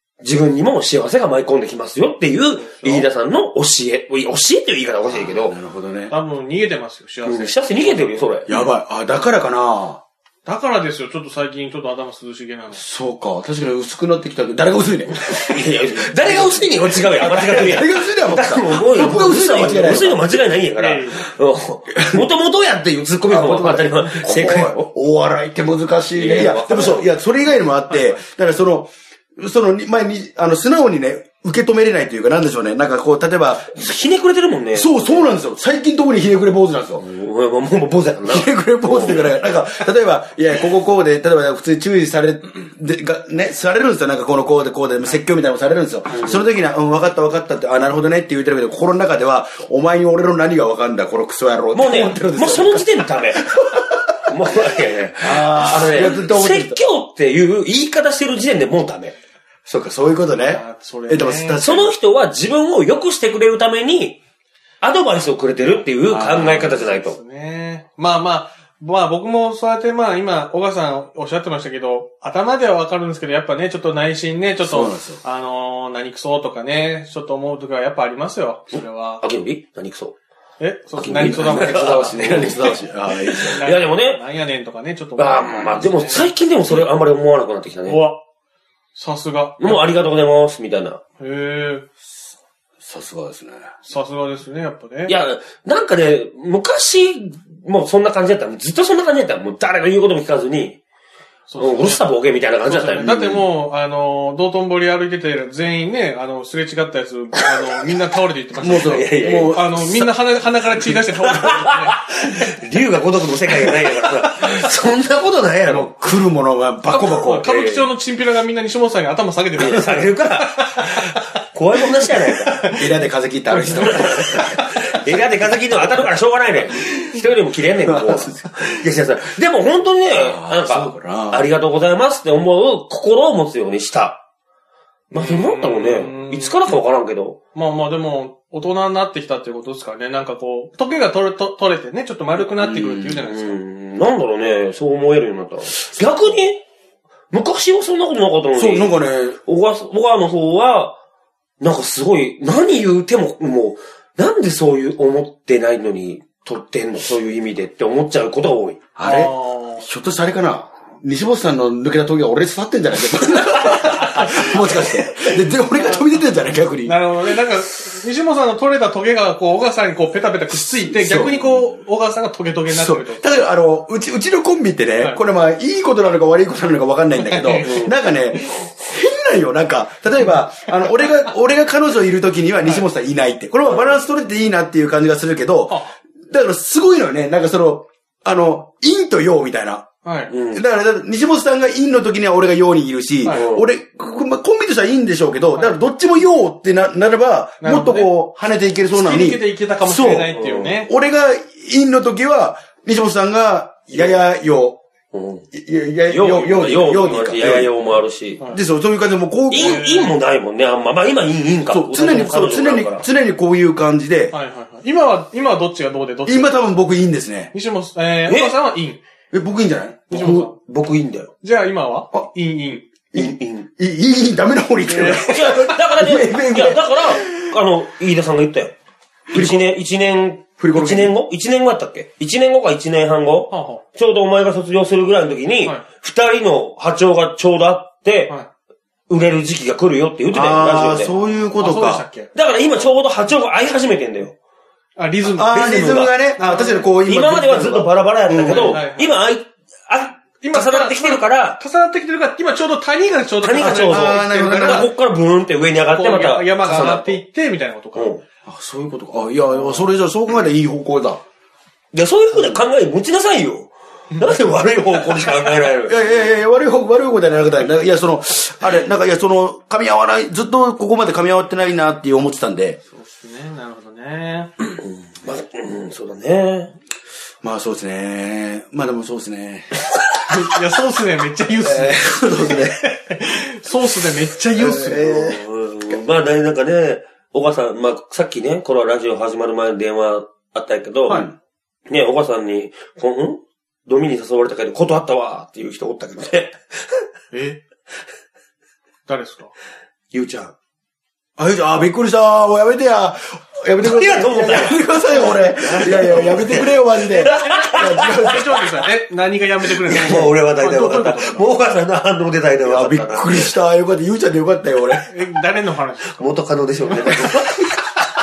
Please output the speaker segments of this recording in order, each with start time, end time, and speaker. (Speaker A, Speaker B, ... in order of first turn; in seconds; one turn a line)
Speaker A: 0.2-5.6
Speaker B: 2.7-3.1
Speaker C: 5.1-6.1
Speaker B: 6.1-8.6
Speaker A: 7.3-8.5
Speaker C: 8.5-10.0
Speaker B: 10.5-12.8
Speaker C: 12.7-20.2
Speaker A: 15.2-24.9
Speaker B: 20.8-21.3
Speaker C: 21.9-22.3
Speaker C: 23.3-33.9
Speaker A: 26.1-27.1
Speaker B: 27.6-28.2
Speaker A: 33.8-34.9
Speaker C: 34.7-37.0
Speaker A: 37.0-39.3
Speaker C: 38.3-54.3
Speaker A: 46.1-46.4
Speaker A: 51.7-53.5
Speaker A: 54.3-59.1
Speaker C: 55.2-56.8
Speaker C: 59.7-61.9
Speaker B: 60.3-61.6
Speaker A: 61.6-64.2
Speaker A: 64.8-67.2
Speaker C: 66.1-66.8
Speaker B: 66.5-79.2
Speaker C: 74.6-75.2
Speaker A: 79.2-80.1
Speaker B: 80.6-82.7
Speaker A: 81.0-82.8
Speaker C: 81.1-83.6
Speaker A: 83.3-84.2
Speaker B: 83.4-86.3
Speaker A: 85.2-88.1
Speaker B: 87.9-88.2
Speaker B: 89.0-89.8
Speaker A: 89.6-91.0
Speaker B: 91.2-91.8
Speaker C: 92.8-93.7
Speaker B: 93.8-95.2
Speaker A: 95.1-100.8
Speaker B: 101.5-102.0
Speaker A: 101.6-103.2
Speaker B: 102.6-112.1
Speaker C: 103.0-103.5
Speaker C: 108.6-109.7
Speaker A: 108.7-110.1
Speaker A: 110.8-115.9
Speaker B: 113.8-114.3
Speaker C: 115.9-117.5
Speaker B: 116.9-121.2
Speaker A: 117.4-117.9
Speaker A: 119.6-122.8
Speaker B: 122.3-122.8
Speaker C: 122.7-125.2
Speaker A: 123.8-134.2
Speaker C: 127.8-128.9
Speaker C: 130.1-131.5
Speaker B: 135.1-136.6
Speaker A: 135.1-137.4
Speaker B: 137.6-143.6
Speaker A: 142.6-146.6
Speaker A: 147.3-148.9
Speaker C: 148.6-149.4
Speaker A: 149.4-151.0
Speaker A: 151.6-158.8
Speaker C: 159.0-167.1
Speaker B: 159.0-159.9
Speaker B: 163.9-166.1
Speaker B: 166.8-173.2
Speaker C: 170.9-171.4
Speaker C: 172.7-189.9
Speaker B: 177.2-177.9
Speaker A: 177.7-177.9
Speaker B: 190.1-190.3
Speaker A: 190.3-190.6
Speaker C: 190.5-200.3
Speaker A: 193.3-193.6
Speaker B: 195.6-195.8
Speaker B: 197.6-198.1
Speaker B: 198.9-200.9
Speaker A: 200.3-200.8
Speaker C: 200.8-204.8
Speaker A: 203.9-204.2
Speaker A: 205.1-205.4
Speaker C: 205.5-207.7
Speaker A: 206.1-208.4
Speaker C: 208.5-209.8
Speaker A: 209.5-213.1
Speaker B: 209.5-210.2
Speaker C: 211.7-214.3
Speaker B: 214.3-216.6
Speaker C: 216.2-217.5
Speaker B: 217.5-219.0
Speaker A: 218.3-218.6
Speaker C: 219.3-220.1
Speaker B: 220.1-220.6
Speaker A: 220.1-221.3
Speaker B: 221.4-222.9
Speaker C: 223.1-227.6
Speaker A: 223.2-223.7
Speaker B: 224.9-225.3
Speaker A: 225.2-228.8
Speaker C: 229.3-229.7
Speaker A: 229.3-238.4
Speaker C: 230.6-231.1
Speaker B: 233.5-233.8
Speaker A: 239.1-241.2
Speaker C: 240.3-242.1
Speaker B: 241.6-242.3
Speaker A: 242.3-244.3
Speaker B: 245.0-246.9
Speaker C: 245.4-248.8
Speaker A: 245.5-246.1
Speaker A: 247.0-251.6
Speaker B: 248.5-249.2
Speaker B: 250.4-254.9
Speaker A: 253.4-257.2
Speaker C: 253.6-254.9
Speaker B: 255.9-258.2
Speaker A: 257.9-258.2
Speaker C: 258.5-261.2
Speaker B: 259.5-259.9
Speaker A: 261.9-266.0
Speaker C: 265.9-272.8
Speaker B: 272.9-274.5
Speaker A: 274.8-276.7
Speaker C: 277.4-279.7
Speaker B: 280.3-285.1
Speaker C: 281.6-282.8
Speaker C: 284.6-285.4
Speaker A: 285.0-291.3
Speaker C: 291.1-291.4
Speaker A: 291.9-297.1
Speaker B: 297.3-297.6
Speaker B: 299.1-299.5
Speaker A: 300.1-300.5
Speaker C: 301.4-308.7
Speaker A: 303.8-308.4
Speaker B: 308.0-311.5
Speaker A: 309.9-313.5
Speaker C: 309.9-310.3
Speaker C: 312.7-315.2
Speaker B: 315.1-316.4
Speaker A: 316.2-317.7
Speaker C: 317.0-317.3